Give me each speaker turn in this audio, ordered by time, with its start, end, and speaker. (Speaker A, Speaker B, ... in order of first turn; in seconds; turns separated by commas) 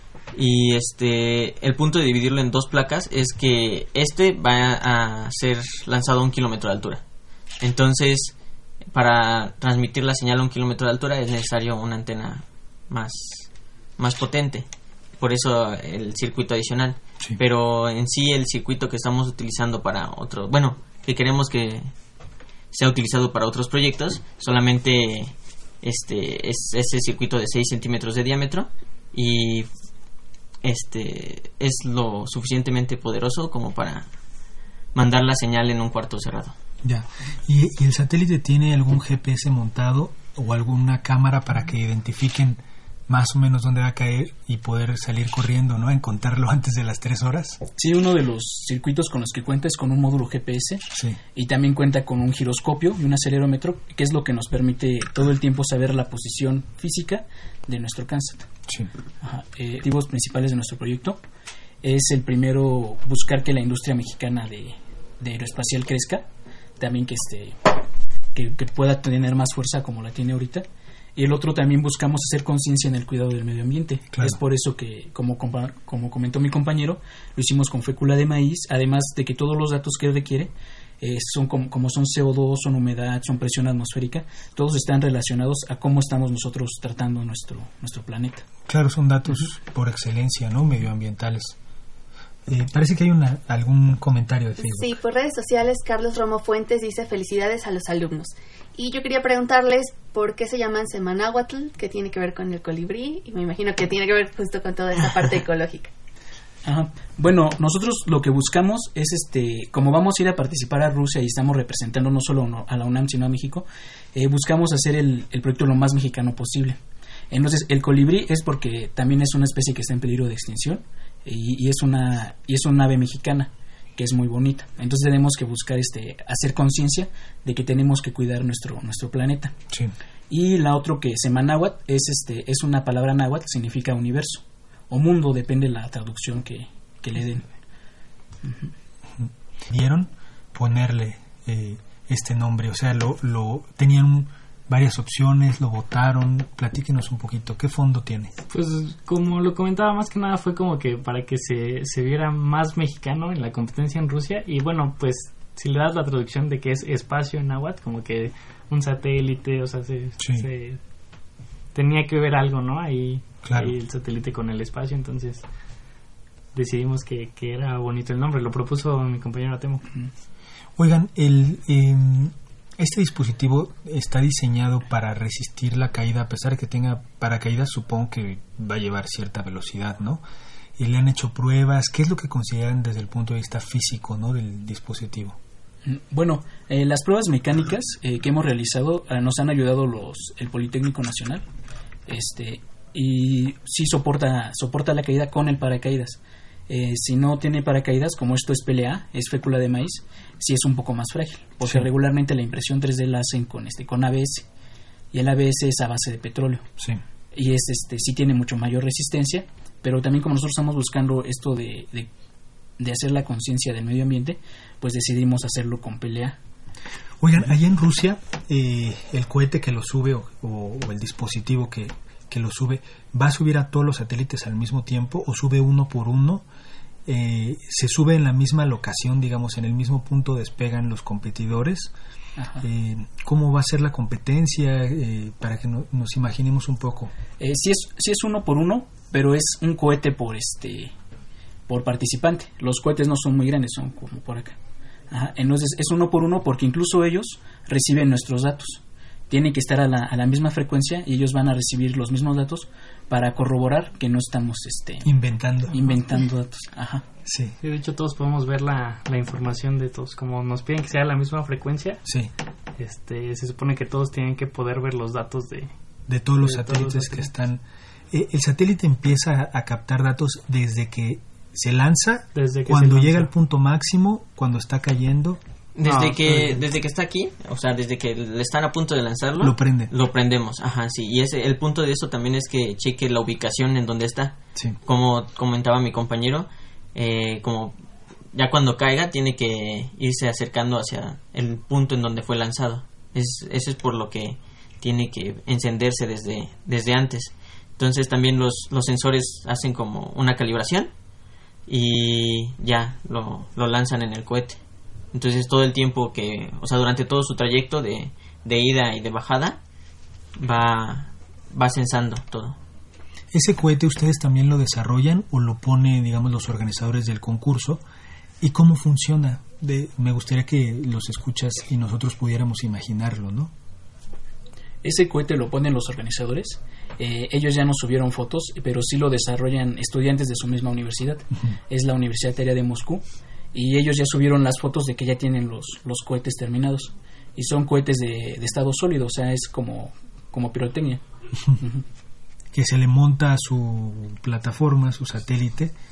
Speaker A: 0.3-7.0, Speaker A: 7.6-8.3, Speaker A: 8.9-14.7, Speaker A: 15.2-21.9, Speaker A: 22.7-29.7, Speaker A: 30.6-34.1, Speaker A: 35.0-36.5, Speaker B: 36.8-47.6, Speaker C: 47.8-58.5, Speaker B: 50.9-51.2, Speaker C: 59.2-61.2, Speaker C: 61.8-66.3, Speaker C: 66.8-67.8, Speaker C: 68.3-88.5, Speaker B: 74.1-74.4, Speaker B: 88.7-91.5, Speaker B: 92.5-95.0, Speaker D: 94.6-105.9, Speaker C: 106.6-116.8, Speaker C: 117.3-129.6, Speaker C: 130.3-137.5, Speaker C: 138.4-138.7, Speaker B: 139.2-148.3, Speaker E: 148.5-160.8, Speaker B: 160.2-160.4, Speaker E: 161.7-165.4, Speaker B: 163.4-163.7, Speaker E: 166.5-169.9, Speaker B: 170.8-180.2, Speaker B: 180.8-185.4, Speaker C: 185.8-191.4, Speaker C: 192.1-204.4, Speaker C: 205.1-206.7, Speaker C: 207.3-212.1, Speaker C: 212.8-216.4, Speaker B: 217.2-226.4, Speaker B: 227.1-231.9, Speaker C: 232.4-232.6, Speaker B: 232.6-237.1, Speaker C: 237.4-240.9, Speaker C: 241.7-244.6, Speaker C: 245.1-255.1, Speaker B: 255.0-255.8, Speaker C: 255.7-257.1, Speaker B: 257.2-257.6, Speaker E: 257.6-262.0, Speaker B: 262.1-262.3, Speaker E: 262.8-265.7, Speaker B: 266.1-276.6, Speaker E: 266.4-267.3, Speaker E: 272.3-273.3, Speaker A: 275.8-287.8, Speaker B: 279.4-279.9, Speaker A: 288.3-300.9, Speaker A: 301.7-304.6, Speaker A: 305.1-309.6, Speaker A: 310.4-312.6, Speaker B: 313.3-317.8, Speaker B: 318.4-323.5, Speaker C: 324.8-341.0, Speaker C: 341.6-341.8, Speaker B: 342.5-345.7